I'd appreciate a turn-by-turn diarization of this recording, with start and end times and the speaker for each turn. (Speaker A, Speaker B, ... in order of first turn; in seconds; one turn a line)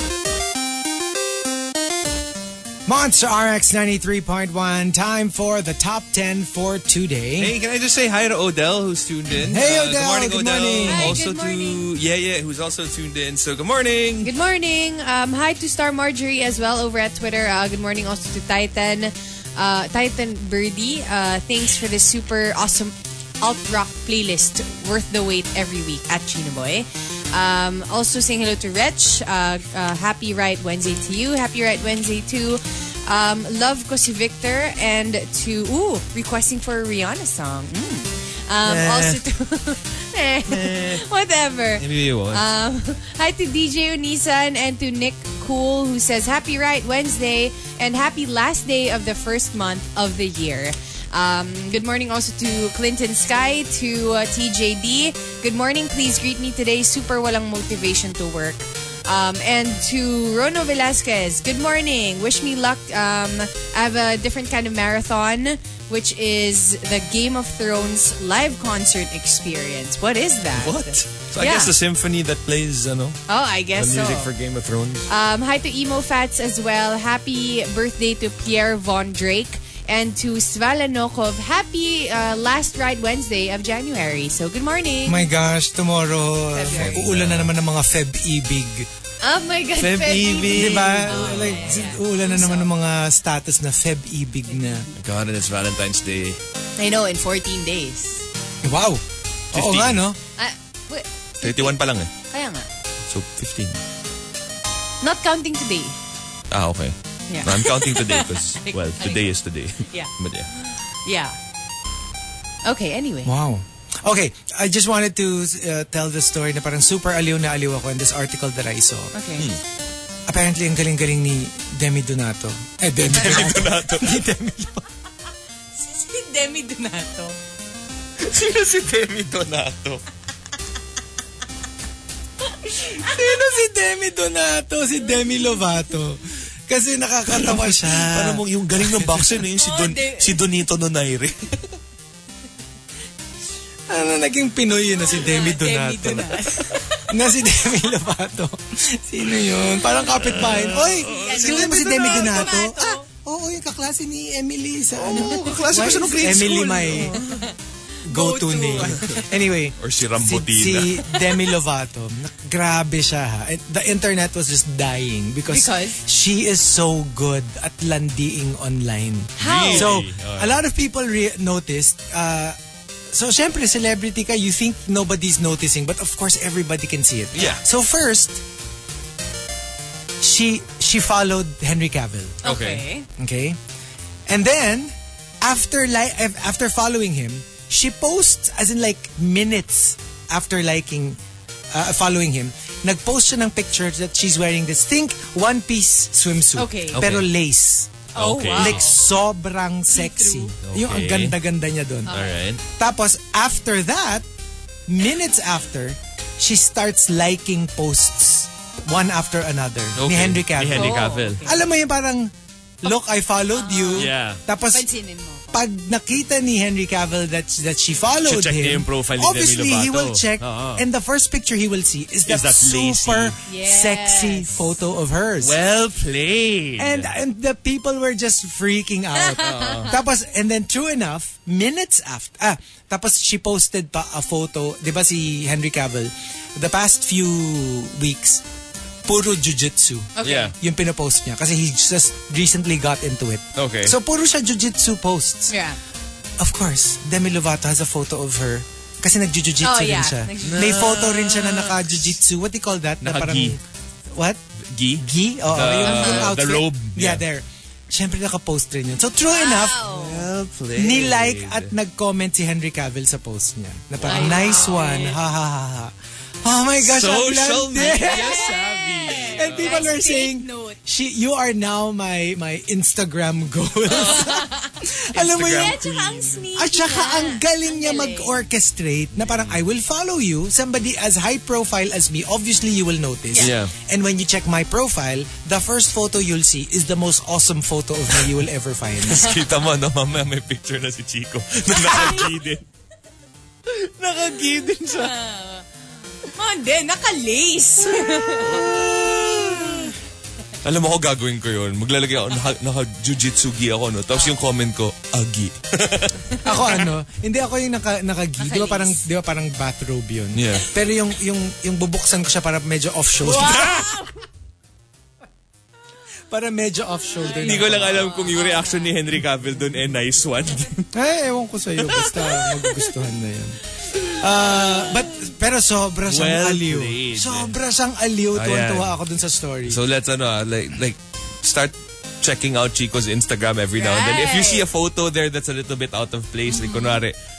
Speaker A: 2.9-7.5
Speaker B: 7.4-14.3
Speaker A: 9.4-11.2
Speaker C: 10.8-11.9
Speaker C: 14.2-71.7
Speaker B: 38.6-39.2
Speaker B: 40.5-41.0
Speaker B: 41.8-42.5
Speaker B: 70.5-73.2
Speaker C: 73.3-74.3
Speaker B: 73.7-75.1
Speaker C: 75.1-85.3
Speaker A: 85.1-88.9
Speaker C: 86.5-87.0
Speaker B: 86.7-87.5
Speaker C: 89.2-92.7
Speaker B: 89.8-91.9
Speaker A: 90.5-94.9
Speaker C: 94.5-94.9
Speaker B: 95.0-96.4
Speaker C: 96.8-98.3
Speaker A: 98.6-100.2
Speaker B: 99.5-100.1
Speaker C: 100.4-102.7
Speaker B: 101.4-102.1
Speaker B: 103.1-103.8
Speaker C: 105.0-106.0
Speaker B: 106.5-110.5
Speaker C: 107.3-109.3
Speaker C: 109.9-111.4
Speaker C: 112.7-113.3
Speaker A: 113.2-119.1
Speaker C: 119.1-119.5
Speaker A: 120.3-124.8
Speaker B: 123.0-124.2
Speaker C: 125.7-127.4
Speaker B: 128.2-130.0
Speaker C: 132.8-133.1
Speaker A: 132.9-139.3
Speaker B: 137.3-141.8
Speaker C: 139.6-140.4
Speaker A: 143.9-146.5
Speaker C: 145.0-147.1
Speaker A: 147.1-157.2
Speaker B: 150.0-152.6
Speaker C: 151.1-153.1
Speaker B: 155.0-157.5
Speaker C: 157.2-159.2
Speaker A: 158.1-172.6
Speaker B: 158.8-159.2
Speaker B: 159.8-161.1
Speaker C: 165.5-166.0
Speaker C: 169.4-169.9
Speaker B: 169.4-170.6
Speaker A: 173.1-178.4
Speaker B: 177.3-177.6
Speaker A: 180.2-182.4
Speaker B: 182.4-182.9
Speaker C: 182.4-183.1
Speaker A: 183.2-183.6
Speaker A: 184.3-191.2
Speaker A: 191.7-204.2
Speaker C: 196.6-197.0
Speaker B: 196.9-197.3
Speaker C: 198.1-199.0
Speaker B: 198.2-198.9
Speaker C: 199.9-200.5
Speaker B: 200.6-201.4
Speaker C: 202.1-202.4
Speaker B: 202.1-202.6
Speaker A: 204.9-214.9
Speaker B: 210.0-211.4
Speaker C: 210.7-211.6
Speaker C: 213.5-215.6
Speaker B: 214.0-214.4
Speaker A: 215.5-225.6
Speaker B: 218.3-220.9
Speaker B: 222.3-223.3
Speaker C: 223.5-224.7
Speaker B: 225.4-227.1
Speaker A: 226.8-238.4
Speaker C: 229.4-230.0
Speaker B: 229.4-230.0
Speaker A: 239.1-245.5
Speaker C: 240.2-240.5
Speaker B: 240.2-240.6
Speaker B: 243.6-244.0
Speaker C: 245.5-245.8
Speaker A: 246.4-253.6
Speaker C: 249.6-251.3
Speaker B: 250.4-252.0
Speaker B: 253.0-253.6
Speaker A: 254.1-254.4
Speaker B: 254.7-257.2
Speaker A: 255.0-259.8
Speaker C: 255.8-256.3
Speaker C: 259.2-260.3
Speaker B: 259.9-261.7
Speaker A: 260.8-268.5
Speaker B: 264.0-264.9
Speaker C: 264.1-265.2
Speaker B: 266.8-269.9
Speaker C: 267.9-270.8
Speaker A: 269.2-275.8
Speaker C: 273.9-274.8
Speaker B: 273.9-274.3
Speaker B: 275.1-276.4
Speaker C: 275.4-278.5
Speaker A: 276.5-289.4
Speaker B: 279.2-279.6
Speaker B: 283.4-283.7
Speaker B: 289.1-292.6
Speaker C: 291.9-292.3
Speaker B: 293.7-295.1
Speaker C: 294.9-295.7
Speaker C: 296.2-299.9
Speaker B: 298.0-299.9
Speaker B: 300.6-306.9
Speaker C: 304.1-304.4
Speaker A: 306.4-313.8
Speaker C: 308.4-309.1
Speaker B: 310.3-310.7
Speaker B: 313.3-314.0
Speaker C: 313.3-314.1
Speaker A: 316.3-318.1
Speaker C: 317.2-318.9
Speaker B: 317.3-320.9
Speaker A: 320.9-323.6
Speaker B: 321.8-322.9
Speaker B: 323.9-324.2
Speaker A: 324.2-329.8
Speaker B: 326.1-327.6
Speaker B: 328.3-328.9
Speaker B: 329.7-337.1
Speaker C: 333.8-334.7
Speaker C: 336.5-337.0